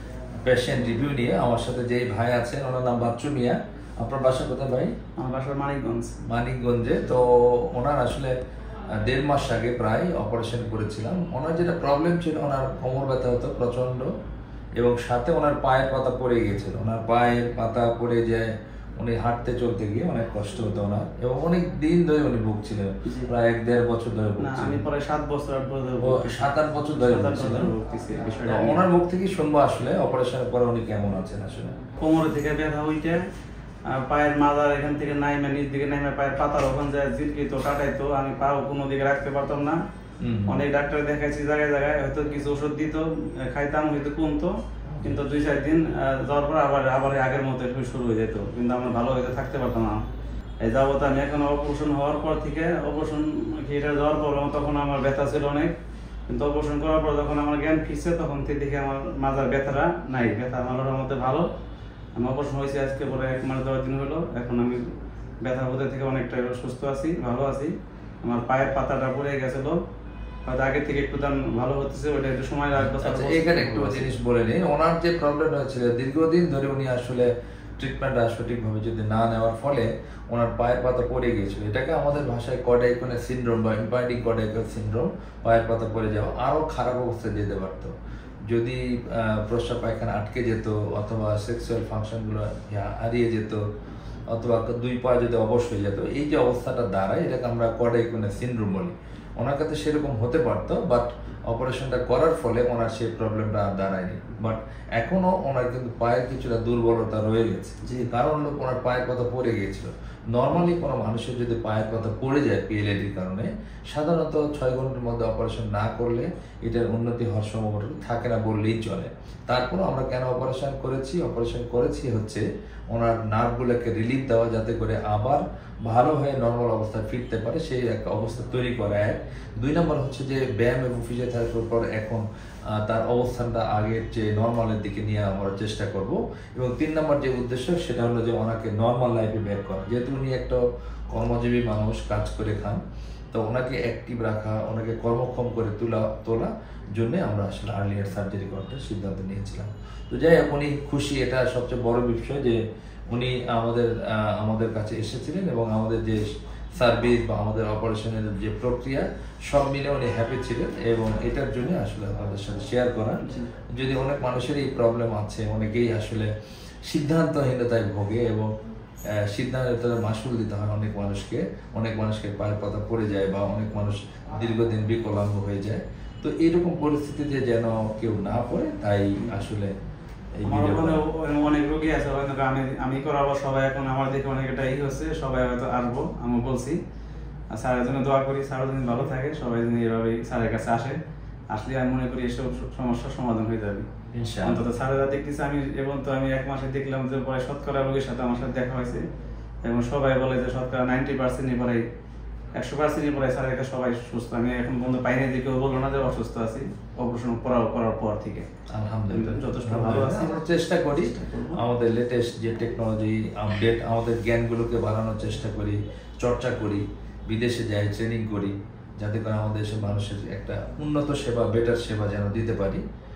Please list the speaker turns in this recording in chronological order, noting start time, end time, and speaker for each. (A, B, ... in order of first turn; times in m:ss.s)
0:00.4-0:04.9 A
0:05.2-0:06.2 B
0:06.3-0:08.3 A
0:09.0-0:14.1 A
0:14.8-0:24.8 A
0:24.4-0:28.8 B
0:26.0-0:27.7 A
0:28.4-0:31.8 A
0:32.0-0:33.2 B
0:33.9-0:39.8 B
0:40.2-0:40.6 A
0:40.5-0:50.0 B
0:50.6-0:55.8 B
0:56.3-1:01.5 B
1:02.2-1:09.8 B
1:10.4-1:14.1 B
1:12.8-1:27.9 A
1:28.5-1:33.6 A
1:34.3-2:12.2 A
2:12.7-2:22.8 A
2:23.3-2:46.3 A
2:43.2-2:43.5 B
2:46.9-2:48.5 A
2:49.1-2:59.7 A
3:00.4-3:01.0 A
3:00.4-3:06.8 B
3:07.5-3:11.0 B
3:11.5-3:13.9 B
3:14.1-3:14.6 A
3:14.4-3:19.0 B
3:19.6-3:21.8 B
3:22.5-3:28.5 B
3:28.7-3:42.8 A
3:29.1-3:31.6 B